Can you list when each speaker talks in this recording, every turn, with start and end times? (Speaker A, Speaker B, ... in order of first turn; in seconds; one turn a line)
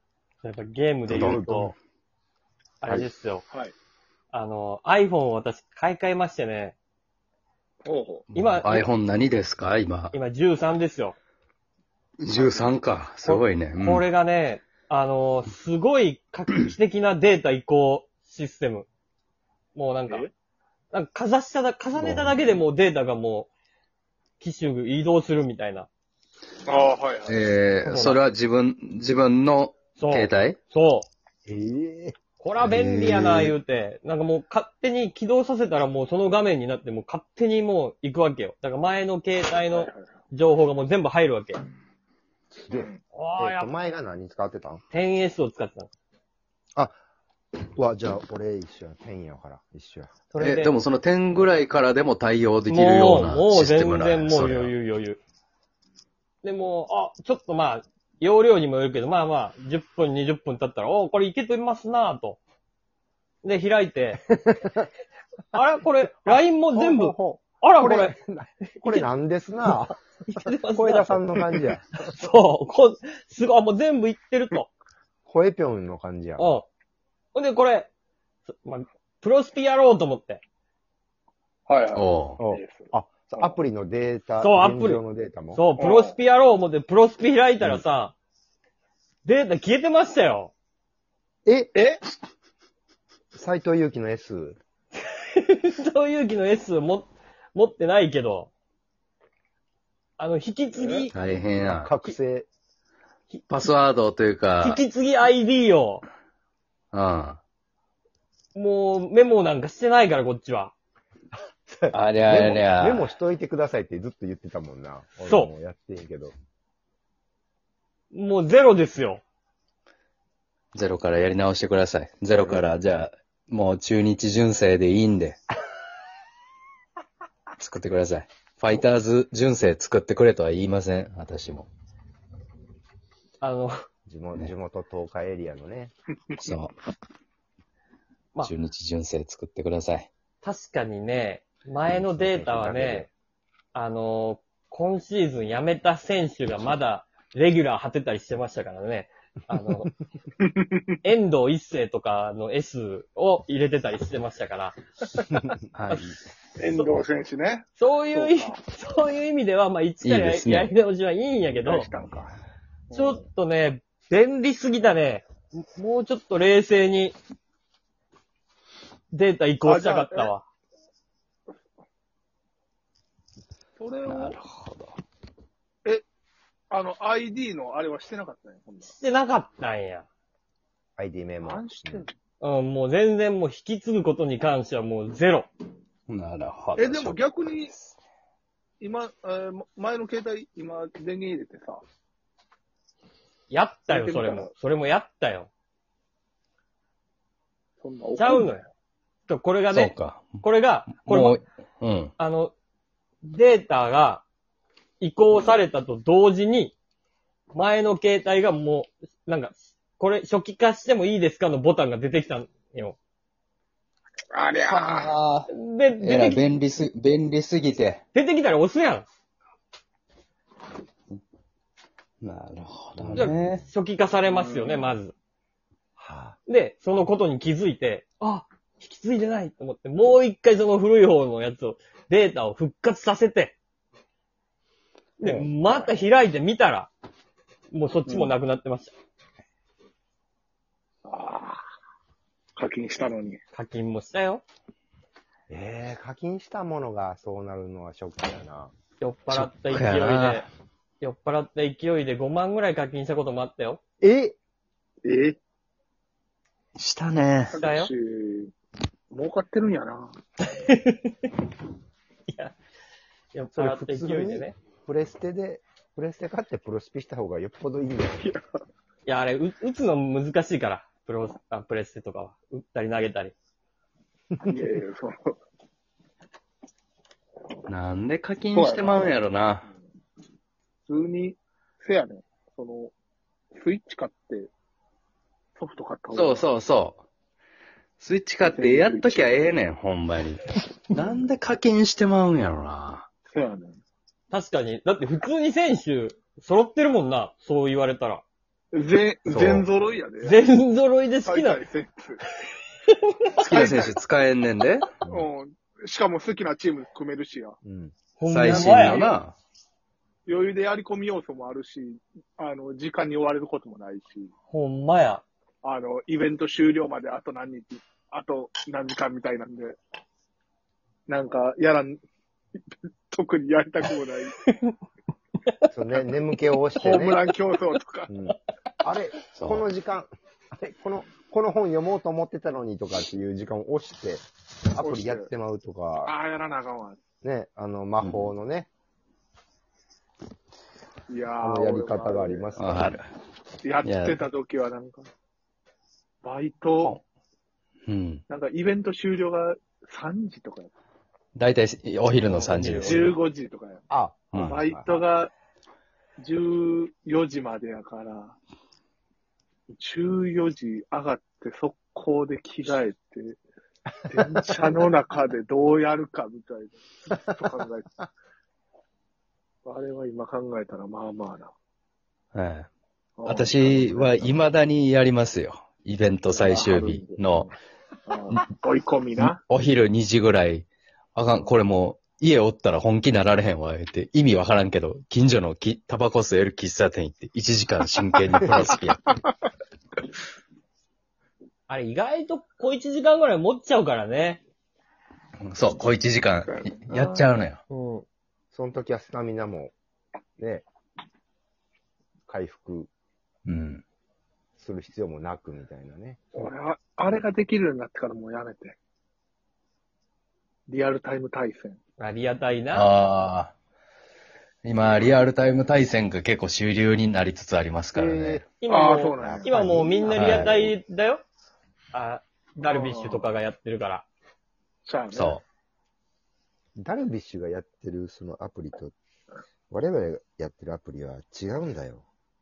Speaker A: 0.4-1.8
Speaker B: 1.1-1.7
Speaker C: 1.1-1.4
Speaker A: 2.8-3.4
Speaker B: 2.9-3.1
Speaker A: 4.3-6.8
Speaker D: 7.8-8.2
Speaker C: 8.3-10.1
Speaker A: 8.3-8.9
Speaker A: 10.1-11.2
Speaker C: 12.2-14.1
Speaker D: 12.3-12.8
Speaker A: 13.2-18.9
Speaker A: 19.8-20.2
Speaker A: 20.9-23.5
Speaker C: 22.0-22.4
Speaker A: 24.4-25.9
Speaker D: 26.7-27.5
Speaker C: 27.2-30.6
Speaker A: 27.8-28.2
Speaker A: 30.0-31.1
Speaker B: 31.5-32.1
Speaker A: 32.4-41.6
Speaker C: 32.6-33.6
Speaker D: 39.7-40.2
Speaker B: 42.5-44.8
Speaker D: 42.7-43.0
Speaker A: 43.1-43.8
Speaker A: 44.9-45.9
Speaker B: 47.6-50.1
Speaker A: 50.3-50.7
Speaker C: 50.4-54.7
Speaker A: 52.7-55.2
Speaker A: 56.4-62.4
Speaker A: 63.4-64.2
Speaker B: 64.3-64.9
Speaker A: 65.5-68.2
Speaker B: 66.2-71.8
Speaker A: 68.7-69.0
Speaker A: 70.3-74.7
Speaker B: 75.2-76.5
Speaker A: 76.4-76.7
Speaker A: 77.3-77.9
Speaker A: 78.5-80.4
Speaker D: 81.7-83.6
Speaker C: 81.9-82.4
Speaker B: 82.4-85.6
Speaker A: 84.4-88.2
Speaker D: 85.8-86.2
Speaker A: 89.2-90.5
Speaker B: 91.5-91.7
Speaker D: 91.8-92.0
Speaker B: 93.3-94.6
Speaker A: 95.1-98.5
Speaker A: 100.2-101.2
Speaker D: 100.8-101.0
Speaker C: 101.1-101.9
Speaker B: 101.6-102.5
Speaker C: 103.5-104.8
Speaker A: 104.6-106.0
Speaker C: 106.9-107.4
Speaker A: 108.5-110.7
Speaker B: 111.7-116.3
Speaker C: 111.9-113.1
Speaker A: 115.2-115.5
Speaker A: 118.1-119.2
Speaker C: 120.7-125.4
Speaker B: 122.3-122.7
Speaker C: 127.6-131.7
Speaker A: 133.4-133.7
Speaker B: 134.1-135.9
Speaker C: 136.4-136.8
Speaker C: 138.4-140.1
Speaker A: 140.4-143.1
Speaker B: 141.9-143.1
Speaker A: 143.7-149.9
Speaker D: 150.5-150.8
Speaker A: 151.0-154.8
Speaker B: 155.3-155.6
Speaker C: 155.7-156.1
Speaker A: 155.9-156.1
Speaker D: 156.6-158.6
Speaker A: 156.8-157.0
Speaker A: 157.8-161.9
Speaker C: 160.0-160.7
Speaker D: 161.5-162.3
Speaker D: 162.9-163.2
Speaker A: 162.9-167.2
Speaker A: 169.1-170.4
Speaker D: 169.6-170.3
Speaker D: 173.8-174.4
Speaker C: 174.1-175.0
Speaker D: 176.7-179.0
Speaker A: 178.8-180.1
Speaker B: 181.0-182.1
Speaker D: 181.4-182.1
Speaker A: 182.4-185.5
Speaker C: 186.1-187.8
Speaker D: 186.8-187.7
Speaker D: 188.8-191.8
Speaker A: 193.5-195.5
Speaker D: 193.9-194.5
Speaker D: 197.8-198.5
Speaker A: 198.2-198.7
Speaker A: 199.3-201.4
Speaker C: 199.7-200.4
Speaker C: 201.0-202.1
Speaker A: 202.2-202.5
Speaker A: 203.2-204.2
Speaker A: 205.0-206.8
Speaker A: 207.5-213.0
Speaker D: 214.3-215.1
Speaker C: 214.7-215.5
Speaker A: 215.5-216.5
Speaker C: 216.0-218.0
Speaker A: 218.1-219.1
Speaker C: 222.2-223.6
Speaker A: 223.1-225.2
Speaker D: 224.3-225.0
Speaker B: 226.0-226.4
Speaker A: 226.5-233.6
Speaker A: 235.2-236.9
Speaker D: 235.2-236.0
Speaker A: 237.7-238.9
Speaker D: 238.1-238.4
Speaker D: 241.1-241.6
Speaker D: 242.6-243.4
Speaker A: 243.5-244.4
Speaker B: 245.5-248.7
Speaker A: 249.0-250.5
Speaker C: 249.3-250.5
Speaker A: 251.0-253.8
Speaker B: 254.0-254.4
Speaker D: 255.0-255.4
Speaker C: 256.8-257.6
Speaker D: 257.5-258.5
Speaker A: 257.6-257.9
Speaker D: 259.1-260.2
Speaker A: 260.4-261.2
Speaker A: 262.3-262.6
Speaker A: 263.3-264.6
Speaker B: 263.6-268.3
Speaker D: 268.2-268.4
Speaker A: 269.1-273.3
Speaker D: 274.4-275.4
Speaker C: 277.7-279.7
Speaker D: 278.5-279.2
Speaker D: 280.9-282.9
Speaker D: 283.5-284.5
Speaker D: 285.6-286.4
Speaker C: 286.1-287.0
Speaker C: 288.0-293.1
Speaker D: 288.4-289.5
Speaker D: 293.3-293.8
Speaker A: 294.3-298.2
Speaker D: 298.7-300.4
Speaker C: 299.2-299.7
Speaker A: 300.2-301.6
Speaker D: 301.2-302.2
Speaker A: 302.9-303.2
Speaker D: 303.4-303.9
Speaker C: 303.4-304.9
Speaker D: 305.1-307.6
Speaker B: 307.6-307.9
Speaker A: 308.2-309.1
Speaker C: 308.3-309.4
Speaker D: 308.8-309.1
Speaker D: 310.2-314.3
Speaker A: 314.5-315.2
Speaker D: 315.6-319.8
Speaker D: 321.1-322.0
Speaker D: 323.1-324.4
Speaker A: 324.5-324.8
Speaker B: 325.7-327.2
Speaker D: 326.8-328.1
Speaker B: 328.1-336.1
Speaker C: 329.4-329.7
Speaker D: 334.8-335.3
Speaker D: 336.1-337.0
Speaker B: 337.2-338.7
Speaker C: 338.0-338.3
Speaker D: 341.1-342.9
Speaker B: 341.4-342.9
Speaker C: 342.6-343.1
Speaker D: 343.6-345.1
Speaker C: 343.8-344.2
Speaker D: 346.2-346.9
Speaker C: 347.9-348.2
Speaker D: 348.3-350.7
Speaker C: 351.4-353.2
Speaker A: 352.3-353.1
Speaker D: 352.9-353.9
Speaker B: 353.9-354.9
Speaker C: 354.3-354.6
Speaker D: 354.4-355.3
Speaker D: 356.2-358.4
Speaker D: 359.7-363.4
Speaker B: 364.1-364.6
Speaker D: 364.1-367.9
Speaker D: 369.6-371.5
Speaker C: 372.3-372.7
Speaker D: 373.2-374.4
Speaker C: 373.2-377.5
Speaker D: 376.3-377.5
Speaker D: 378.1-379.4
Speaker C: 379.2-389.2
Speaker A: 391.7-394.4
Speaker C: 395.4-397.6
Speaker D: 396.5-397.2
Speaker A: 397.7-398.1
Speaker B: 398.5-399.7
Speaker B: 400.4-400.6
Speaker B: 402.3-402.9
Speaker C: 403.4-403.8
Speaker B: 404.6-406.5
Speaker D: 406.4-408.8
Speaker D: 410.7-411.8
Speaker A: 412.0-412.9
Speaker C: 412.7-413.5
Speaker C: 414.6-418.5
Speaker B: 417.9-418.5
Speaker A: 418.6-421.2
Speaker D: 418.7-420.5
Speaker B: 419.2-420.4
Speaker C: 420.1-420.7
Speaker A: 421.9-424.1
Speaker D: 422.6-423.3
Speaker D: 424.9-425.4
Speaker C: 425.1-425.4
Speaker B: 426.8-428.9
Speaker B: 429.7-432.1